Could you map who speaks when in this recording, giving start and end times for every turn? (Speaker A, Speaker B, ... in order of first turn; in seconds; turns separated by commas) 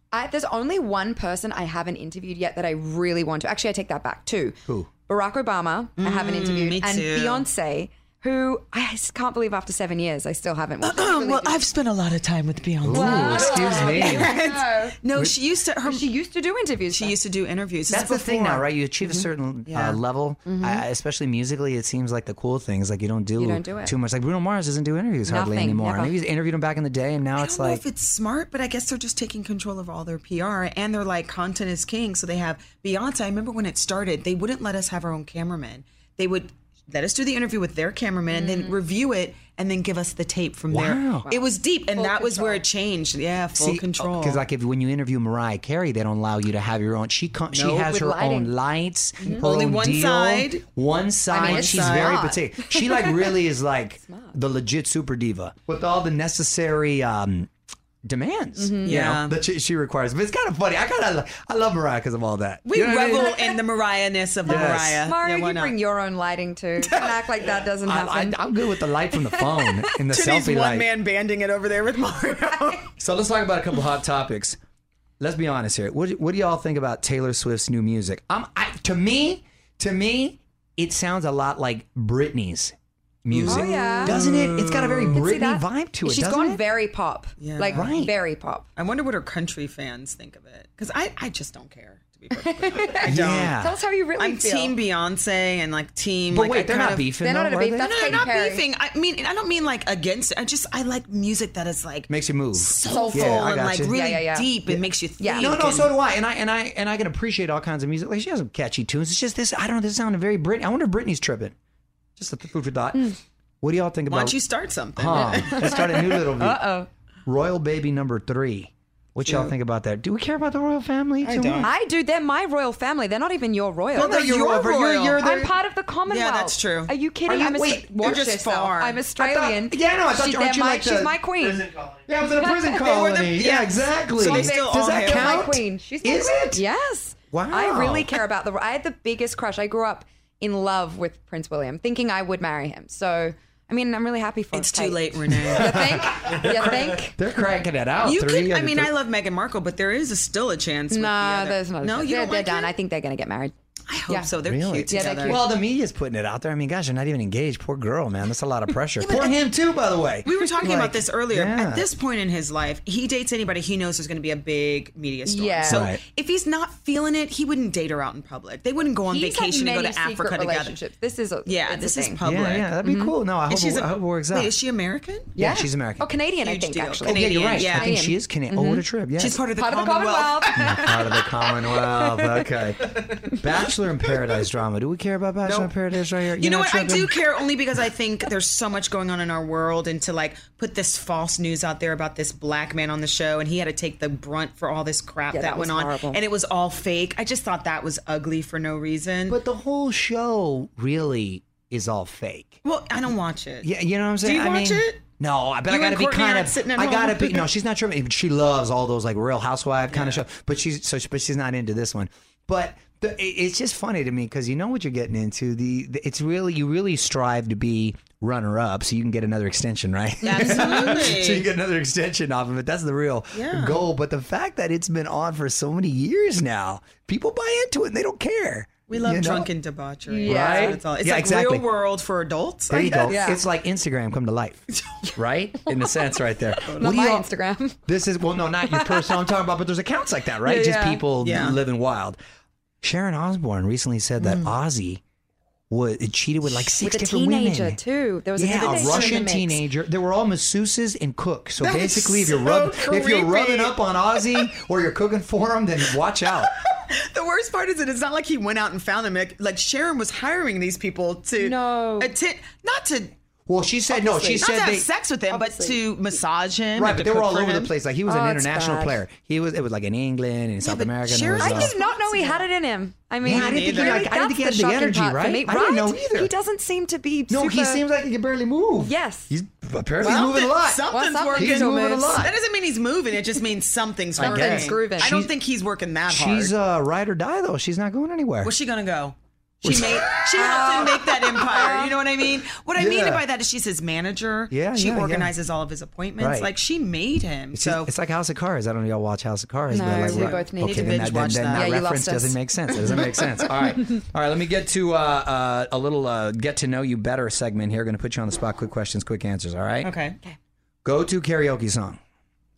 Speaker A: 0.1-11.6, Speaker B: 6.0-7.5, Speaker B: 10.8-16.1, Speaker C: 12.8-14.3, Speaker A: 12.9-15.0, Speaker A: 15.8-17.2, Speaker B: 16.9-18.7, Speaker C: 17.9-27.8, Speaker A: 19.0-19.3, Speaker B: 19.7-20.0, Speaker A: 20.5-20.8, Speaker A: 23.4-23.9, Speaker A: 25.3-26.2, Speaker B: 27.4-44.4, Speaker A: 38.3-38.8, Speaker C: 40.7-41.3, Speaker A: 41.2-42.6, Speaker C: 43.5-57.5, Speaker B: 47.5-47.9, Speaker A: 47.9-48.5, Speaker A: 49.2-49.5, Speaker B: 49.2-50.6, Speaker A: 51.3-52.9, Speaker B: 51.3-52.2, Speaker A: 54.1-54.3, Speaker C: 58.1-63.4, Speaker A: 58.6-59.0, Speaker B: 58.8-59.4, Speaker B: 62.6-65.8, Speaker A: 63.1-63.4, Speaker A: 64.5-69.9, Speaker C: 64.5-65.0, Speaker B: 66.8-67.5, Speaker C: 67.8-70.9, Speaker B: 70.1-72.9, Speaker C: 73.0-74.6, Speaker C: 75.2-82.7, Speaker C: 83.2-86.6, Speaker B: 83.3-85.2, Speaker A: 83.5-84.2, Speaker A: 85.1-88.7, Speaker B: 87.4-88.1, Speaker C: 87.7-88.1, Speaker B: 88.8-93.6, Speaker A: 92.4-94.8, Speaker C: 93.0-93.7, Speaker B: 94.2-97.1, Speaker C: 96.3-98.2, Speaker A: 97.2-98.7, Speaker B: 97.8-106.0, Speaker C: 102.1-104.0, Speaker A: 102.8-104.5, Speaker C: 104.7-111.5, Speaker A: 105.2-105.7, Speaker C: 112.2-114.4, Speaker B: 114.1-116.3, Speaker C: 115.0-116.6, Speaker A: 115.2-116.9, Speaker C: 117.3-121.7, Speaker B: 119.2-119.5, Speaker B: 121.2-121.7, Speaker A: 121.6-124.2, Speaker B: 124.0-125.2, Speaker C: 124.0-125.5, Speaker A: 125.2-131.7, Speaker B: 126.1-127.0, Speaker C: 127.3-128.2, Speaker B: 128.0-129.1, Speaker C: 129.2-136.6, Speaker B: 132.8-135.6, Speaker A: 134.2-147.2, Speaker C: 137.3-138.1, Speaker B: 144.5-146.2, Speaker C: 145.3-148.9, Speaker B: 148.0-152.7, Speaker A: 150.9-153.5, Speaker B: 153.9-155.5, Speaker A: 154.1-154.3, Speaker C: 154.4-161.9, Speaker A: 154.9-155.5, Speaker B: 159.0-159.5, Speaker B: 160.2-170.8, Speaker A: 165.2-165.9, Speaker C: 165.7-166.0, Speaker A: 169.0-172.2, Speaker B: 171.5-172.7, Speaker C: 172.2-174.5, Speaker A: 172.8-173.2, Speaker B: 173.5-175.3, Speaker C: 175.4-176.1, Speaker A: 175.4-178.8, Speaker B: 176.4-177.9, Speaker C: 177.0-179.4, Speaker B: 179.2-181.3, Speaker A: 179.5-182.4, Speaker C: 180.6-187.1, Speaker B: 185.4-185.8, Speaker B: 186.4-199.4, Speaker A: 195.3-196.2, Speaker C: 199.3-202.6, Speaker B: 202.6-205.0, Speaker C: 203.6-229.5, Speaker B: 205.7-207.5, Speaker B: 209.9-210.3, Speaker B: 220.2-221.5, Speaker B: 223.3-223.9, Speaker B: 228.9-233.1, Speaker A: 230.1-230.8, Speaker C: 230.3-231.7, Speaker C: 232.7-234.7, Speaker A: 232.9-233.4, Speaker B: 234.8-235.1, Speaker C: 235.2-237.3, Speaker A: 235.7-237.8, Speaker B: 236.7-236.9, Speaker C: 237.9-242.2, Speaker A: 238.7-239.3, Speaker A: 240.4-241.0, Speaker B: 241.2-241.6, Speaker C: 242.8-245.0, Speaker B: 244.2-244.5, Speaker C: 245.7-247.8, Speaker A: 246.8-249.6, Speaker C: 248.4-256.5, Speaker B: 248.6-249.3, Speaker B: 251.6-254.5, Speaker B: 256.2-263.1, Speaker A: 261.4-262.1, Speaker C: 263.5-264.9, Speaker B: 263.9-267.7, Speaker A: 265.3-265.8, Speaker C: 266.8-271.7, Speaker A: 268.1-269.0, Speaker B: 270.6-272.5, Speaker A: 271.4-277.8, Speaker B: 273.2-274.1, Speaker C: 273.2-276.3, Speaker C: 277.3-280.8, Speaker A: 278.8-279.3, Speaker B: 280.0-286.6, Speaker A: 280.0-282.2, Speaker C: 281.4-282.3, Speaker C: 284.2-285.3, Speaker A: 284.2-285.1, Speaker C: 286.1-288.5, Speaker B: 288.4-297.9, Speaker C: 289.6-290.1, Speaker A: 290.3-291.9, Speaker C: 292.8-293.2, Speaker C: 294.5-295.3, Speaker C: 296.2-296.5, Speaker C: 297.5-310.0, Speaker A: 299.7-300.9, Speaker B: 299.8-301.8, Speaker A: 301.4-302.4, Speaker B: 302.9-303.4, Speaker B: 309.8-310.2, Speaker C: 310.9-312.0